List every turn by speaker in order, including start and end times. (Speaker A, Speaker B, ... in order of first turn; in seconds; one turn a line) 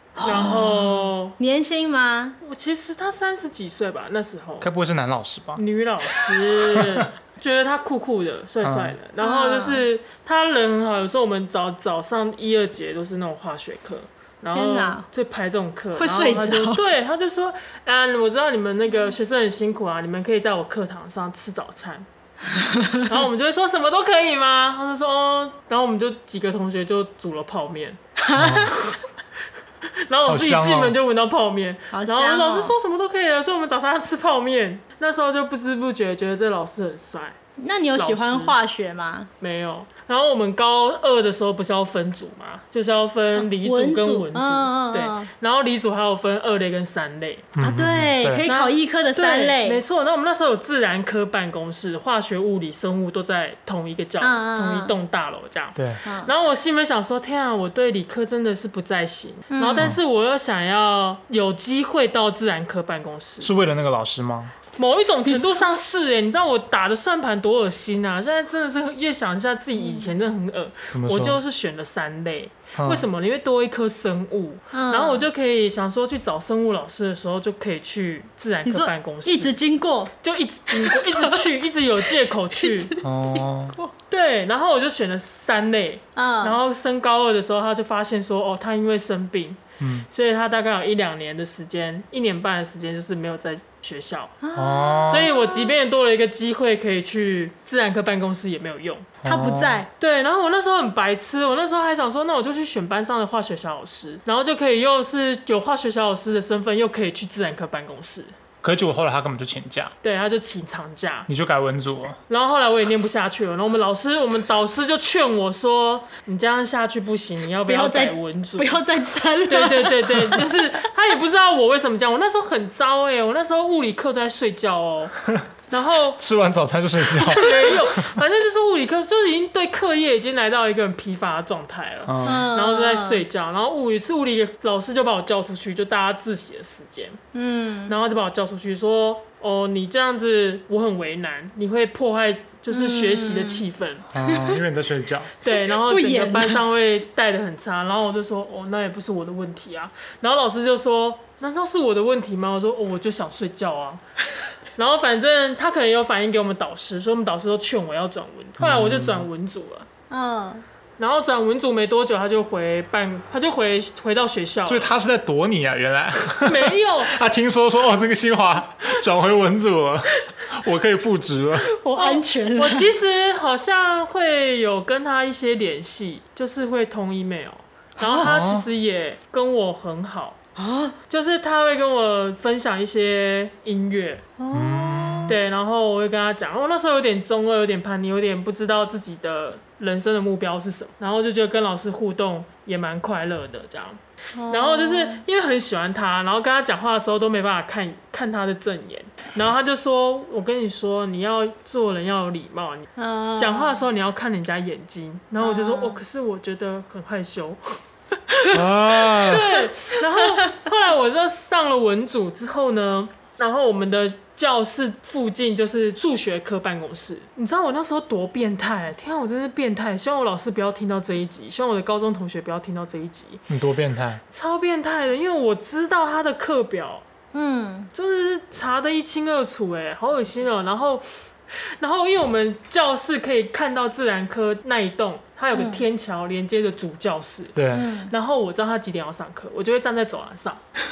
Speaker A: 0.2-1.4
Speaker B: 0.2-2.4
Speaker A: 2.4-4.7
Speaker C: 4.6-5.6
Speaker A: 5.6-22.1
Speaker C: 6.2-7.0
Speaker C: 8.6-8.9
Speaker B: 9.2-9.8
Speaker B: 14.5-15.1
Speaker B: 15.9-16.8
Speaker B: 22.5-23.1
Speaker A: 23.0-28.0
Speaker B: 28.2-28.9
Speaker C: 28.3-28.8
Speaker A: 30.0-37.4
Speaker C: 30.2-30.9
Speaker B: 31.9-32.8
Speaker B: 37.6-39.3
Speaker A: 37.9-38.5
Speaker A: 39.4-47.5
Speaker B: 43.3-45.3
Speaker C: 47.5-48.5
Speaker B: 47.6-49.8
Speaker A: 48.4-63.5
Speaker B: 54.2-54.9
Speaker C: 55.8-56.0
Speaker B: 56.0-56.3
Speaker B: 59.5-59.9
Speaker C: 63.4-64.5
Speaker A: 64.8-79.6
Speaker B: 65.2-65.6
Speaker B: 69.8-70.1
Speaker C: 70.9-71.4
Speaker C: 72.8-73.1
Speaker B: 74.7-75.3
Speaker B: 78.6-80.1
Speaker A: 80.2-82.9
Speaker B: 80.7-81.5
Speaker B: 82.2-83.9
Speaker C: 83.0-83.8
Speaker A: 84.1-94.4
Speaker B: 86.1-86.6
Speaker C: 89.8-90.0
Speaker B: 94.4-95.7
Speaker C: 94.5-95.3
Speaker A: 95.1-99.1
Speaker C: 99.2-99.8
Speaker B: 99.2-99.9
Speaker A: 100.0-108.3
Speaker C: 108.6-109.9
Speaker A: 110.0-111.3
Speaker C: 111.3-112.2
Speaker A: 112.3-118.8
Speaker B: 117.7-120.5
Speaker A: 119.5-125.2
Speaker A: 125.7-126.2
Speaker C: 126.2-128.2
Speaker A: 127.3-137.2
Speaker C: 132.1-132.4
Speaker B: 132.2-133.2
Speaker B: 137.3-137.9
Speaker A: 137.9-144.0
Speaker B: 142.7-143.6
Speaker C: 144.1-145.3
Speaker B: 144.2-144.6
Speaker A: 145.4-154.0
Speaker B: 145.5-146.6
Speaker A: 154.7-159.9
Speaker C: 158.6-159.2
Speaker B: 160.1-160.6
Speaker A: 161.0-164.9
Speaker C: 164.6-171.7
Speaker A: 166.4-167.2
Speaker B: 171.7-172.9
Speaker A: 171.9-180.4
Speaker B: 178.0-178.3
Speaker C: 178.2-178.7
Speaker B: 180.6-180.9
Speaker A: 181.1-184.2
Speaker B: 184.4-185.3
Speaker C: 184.5-185.4
Speaker A: 185.3-223.4
Speaker B: 194.3-195.2
Speaker B: 202.9-203.8
Speaker B: 205.4-206.0
Speaker C: 208.5-209.6
Speaker B: 210.2-210.5
Speaker C: 223.5-224.2
Speaker A: 224.3-227.0
Speaker B: 227.3-227.9
Speaker A: 227.9-237.6
Speaker B: 235.5-235.8
Speaker C: 237.6-237.9
Speaker B: 237.7-238.1
Speaker A: 238.1-240.6